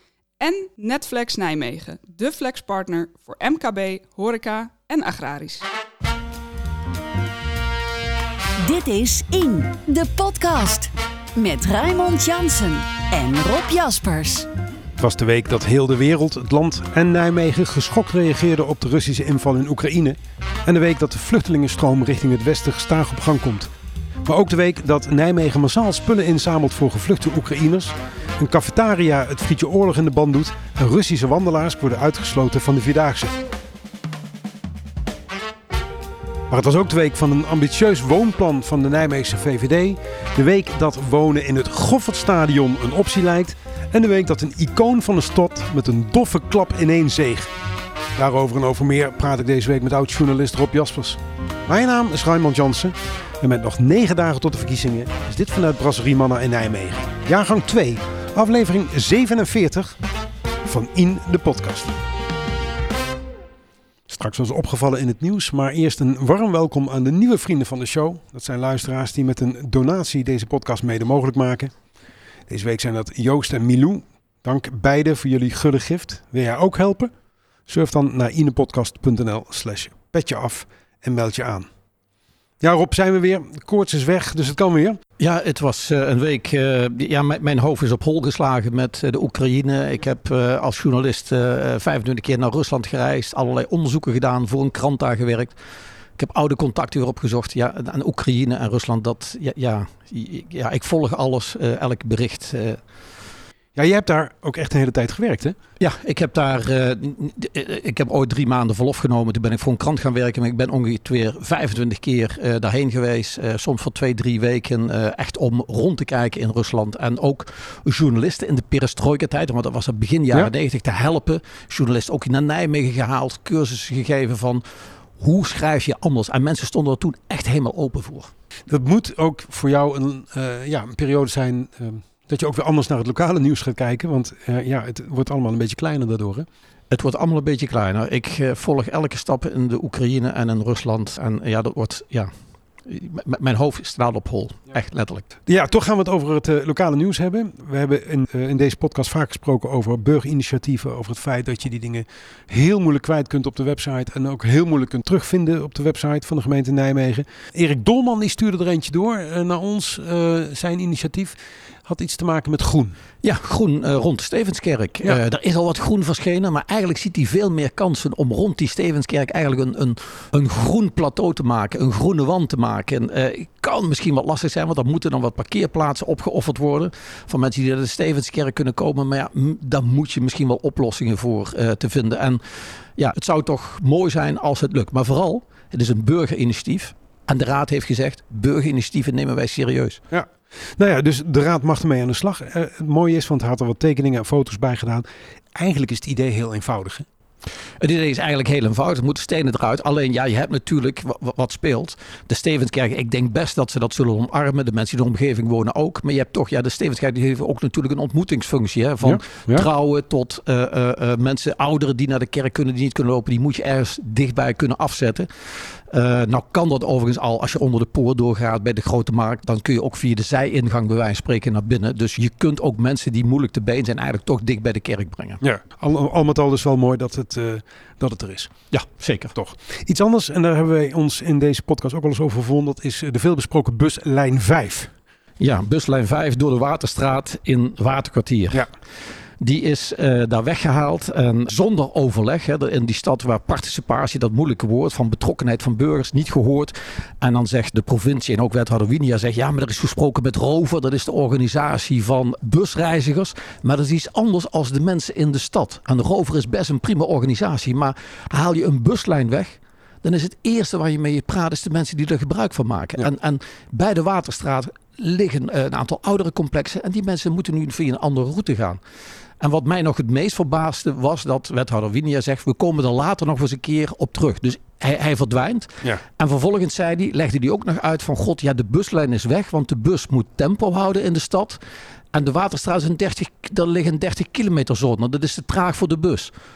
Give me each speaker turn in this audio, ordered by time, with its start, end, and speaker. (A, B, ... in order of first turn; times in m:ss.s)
0:00.4-0:05.6 A
0:08.6-0:14.5 B
0:15.0-0:23.7 C
0:24.2-0:33.4 C
0:36.5-0:47.5 C
0:48.2-1:00.0 C
1:00.6-1:02.0 C
1:04.1-1:11.7 C
1:12.5-1:17.1 C
1:17.7-1:21.7 C
1:22.6-1:25.0 C
1:25.2-1:35.6 D
1:36.2-1:42.8 D
1:43.7-1:45.6 C
1:45.8-2:04.6 D
2:05.2-2:08.3 D
2:08.7-2:16.5 C
2:16.9-2:22.3 D
2:22.8-2:25.2 D
2:25.5-2:43.0 C
2:43.2-3:10.0 D
3:10.1-3:17.1 C
3:17.8-3:45.4 D
3:29.0-3:29.7 C
3:45.4-3:48.5 C
3:48.7-3:49.3 D
3:49.3-3:54.9 C
3:55.4-3:58.6 D
3:59.4-4:28.8 D
4:29.4-4:41.6 D
4:42.1-4:46.3 D